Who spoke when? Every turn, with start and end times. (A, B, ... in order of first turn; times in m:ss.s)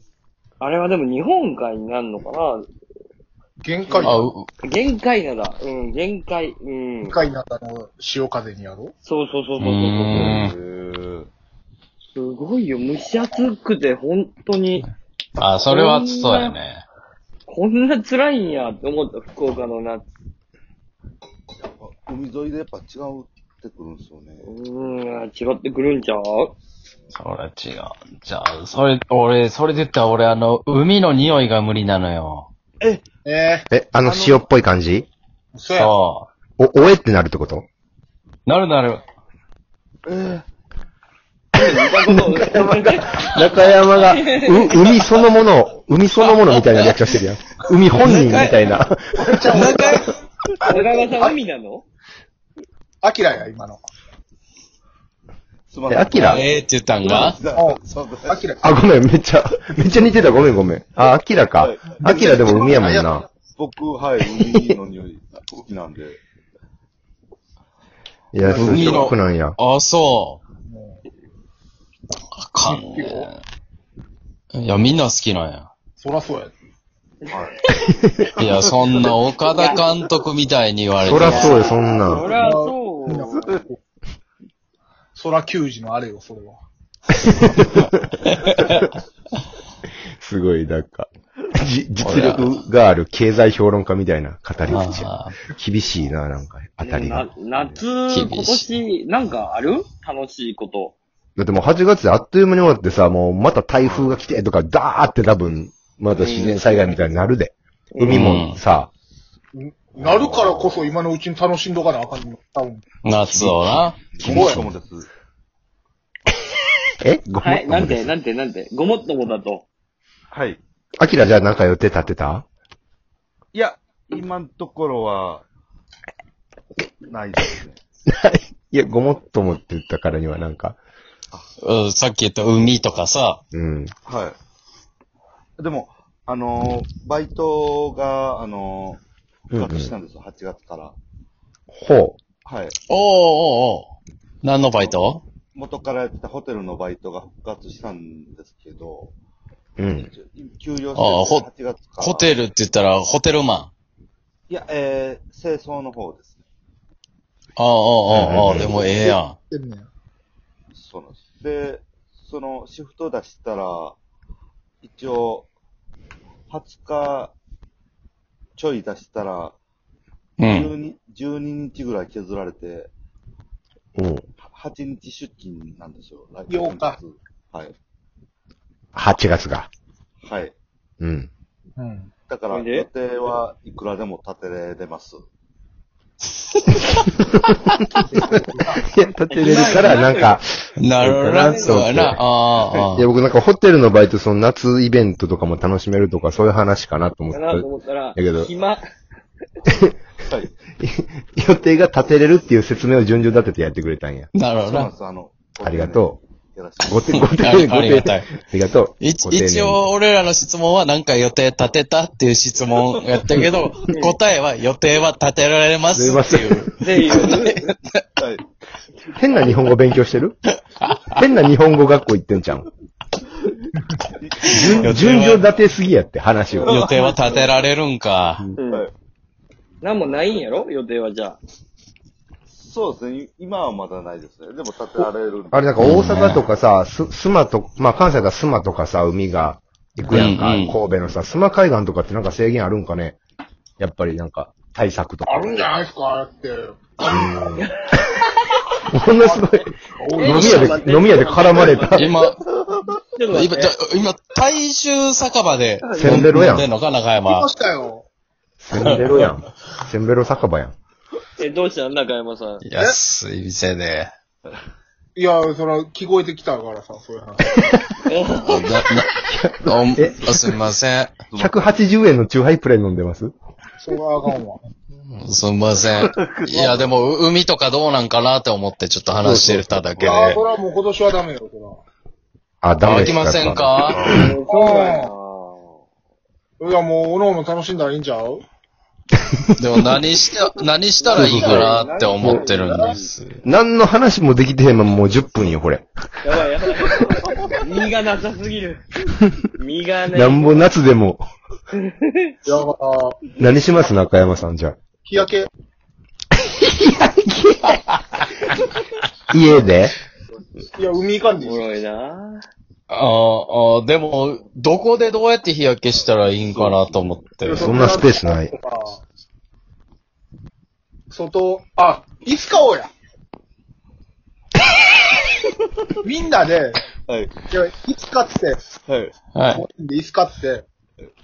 0:00.6-0:02.6 A
0:03.6-0:04.3 B
0:03.9-0:07.2 A
0:04.0-0:04.5 C
0:07.0-0:08.9 B
0:09.0-0:10.3 A
0:09.6-0:10.6 C
0:10.2-0:11.3 D
0:12.1-0:14.9 A
0:15.4-0:16.8 C
0:15.7-0:16.6 A
0:17.5-0:20.1 A
0:21.6-0:24.5 D
0:24.4-0:26.5 A
0:27.1-0:32.5 C
0:32.8-0:33.1 D
0:33.2-0:33.7 B
0:33.7-0:35.1 E
0:34.0-0:34.5 D
0:35.5-0:35.9 B
0:35.8-0:36.3 C
0:36.6-0:37.7 E
0:38.5-0:39.0 C
0:40.1-0:40.4 D
0:41.6-0:45.0 A
0:41.6-0:50.0 E
0:46.2-0:47.0 C
0:48.0-0:48.6 C
0:49.1-0:51.4 B
0:49.5-0:50.0 C
0:50.7-0:51.9 A
0:53.0-0:53.9 B
0:55.7-0:58.5 D
0:55.9-0:56.4 E
0:56.2-0:57.4 C
0:57.5-0:58.6 B
0:58.6-1:03.3 E
1:01.6-1:02.6 D
1:02.0-1:03.3 B
1:03.5-1:06.2 D
1:08.3-1:09.6 E
1:08.4-1:09.0 B
1:08.6-1:10.4 C
1:10.7-1:11.0 B
1:12.4-1:13.4 C
1:12.6-1:13.3 B
1:14.5-1:15.7 C
1:16.0-1:16.5 B
1:17.9-1:18.5 E
1:18.4-1:21.6 C
1:19.5-1:19.8 A
1:21.0-1:22.3 E
1:21.1-1:23.5 A
1:22.3-1:23.8 B
1:25.1-1:26.6 B
1:27.3-1:28.0 E
1:28.3-1:28.8 C
1:30.2-1:37.8 E
1:32.0-1:32.5 C
1:34.7-1:35.4 C
1:36.8-1:41.0 A
1:38.1-1:38.7 C
1:41.4-1:48.9 E
1:43.8-1:44.1 D
1:46.1-1:46.9 A
1:47.9-1:48.2 A
1:48.1-1:48.6 C
1:49.5-1:52.8 B
1:50.0-1:50.8 D
1:53.0-1:54.2 C
1:53.3-1:54.4 E
1:54.2-1:55.1 D
1:54.2-1:54.6 B
1:57.0-1:58.1 E
1:57.4-1:59.6 A
2:00.3-2:00.6 D
2:01.0-2:02.4 E
2:03.5-2:05.4 D
2:07.1-2:07.8 D
2:08.1-2:10.8 E
2:11.6-2:13.4 C
2:13.5-2:13.9 E
2:14.1-2:14.4 D
2:15.6-2:21.0 D
2:19.5-2:19.9 E
2:21.7-2:22.2 E
2:22.4-2:22.8 D
2:22.9-2:23.9 C
2:24.4-2:25.2 C
2:24.8-2:29.1 D
2:29.8-2:30.1 E
2:29.9-2:32.4 D
2:31.0-2:31.5 C
2:32.0-2:33.7 C
2:34.5-2:36.5 D
2:37.6-2:39.4 C
2:38.1-2:38.8 E
2:38.3-2:38.9 D
2:38.9-2:39.9 B
2:40.7-2:44.0 D
2:44.8-2:45.5 D
2:46.5-2:47.4 D
2:48.6-2:49.6 D
2:50.4-2:50.7 C
2:50.4-2:52.9 D
2:54.0-2:54.3 E
2:54.4-2:57.7 D
2:56.5-2:57.0 B
2:58.9-2:59.7 E
3:00.2-3:00.5 D
3:01.0-3:01.3 E
3:01.8-3:02.1 B
3:02.3-3:05.2 D
3:02.5-3:02.9 A
3:07.2-3:07.6 E
3:08.0-3:08.8 B
3:08.8-3:18.5 E
3:09.3-3:10.4 A
3:10.8-3:13.1 C
3:11.3-3:11.9 A
3:17.3-3:18.8 A
3:19.7-3:20.0 E
3:20.8-3:24.3 E
3:24.3-3:24.9 C
3:24.6-3:27.8 D
3:25.6-3:26.2 E
3:26.9-3:29.8 E
3:27.1-3:28.3 C
3:29.0-3:37.7 C
3:35.9-3:36.8 E
3:36.8-3:37.6 A
3:38.2-3:38.4 D
3:39.2-3:40.4 E
3:40.8-3:41.1 C
3:41.1-3:42.7 E
3:44.2-3:45.0 D
3:44.4-3:45.5 C
3:44.5-3:46.8 E
3:46.6-3:47.7 D
3:46.6-3:48.4 C
3:46.9-3:47.5 A
3:48.6-3:48.8 A
3:49.8-3:51.4 A
3:52.5-3:55.7 D
3:55.5-4:03.2 E
3:55.8-3:56.4 C
4:00.1-4:00.8 C
4:03.8-4:05.6 E
4:05.2-4:07.2 B
4:07.1-4:07.7 E
4:08.9-4:09.7 E
4:09.2-4:11.8 B
4:10.2-4:12.1 A
4:10.2-4:12.2 E
4:10.4-4:10.6 C
4:11.9-4:12.4 C
4:13.2-4:13.8 A
4:13.3-4:17.5 C
4:16.0-4:16.7 E
4:17.2-4:18.1 B
4:18.6-4:20.7 E
4:18.8-4:19.3 C
4:21.4-4:22.6 A
4:22.6-4:24.1 C
4:25.2-4:27.6 B
4:28.0-4:28.7 A
4:28.4-4:29.1 C
4:29.3-4:30.3 E
4:29.6-4:31.2 C
4:31.3-4:31.6 D
4:31.4-4:33.3 E
4:33.8-4:34.6 B
4:34.9-4:40.4 C
4:35.8-4:37.0 D
4:39.2-4:39.9 E
4:40.0-4:41.8 B
4:42.6-4:44.3 E
4:42.8-4:44.0 C
4:43.4-4:44.3 D
4:44.1-4:45.7 A
4:44.5-4:45.1 B
4:46.6-4:48.4 B
4:49.6-4:53.4 C
4:51.0-4:53.1 A
4:51.1-4:52.4 E
4:51.3-4:51.7 B
4:52.6-4:53.0 B
4:53.4-4:55.8 E
4:56.2-4:58.8 A
4:59.6-5:00.7 A
5:00.1-5:01.2 E
5:01.9-5:02.4 A
5:02.4-5:03.2 B
5:03.4-5:04.8 E
5:05.0-5:05.5 B
5:06.5-5:07.8 E
5:09.3-5:09.9 E
5:10.7-5:11.7 B
5:11.4-5:12.5 A
5:12.9-5:17.7 C
5:16.5-5:17.0 D
5:17.4-5:19.0 B
5:17.6-5:18.5 E
5:21.1-5:22.9 B
5:26.0-5:26.8 B
5:27.1-5:27.4 D
5:27.5-5:28.6 B
5:28.8-5:29.1 D
5:29.4-5:29.6 C
5:29.5-5:30.6 B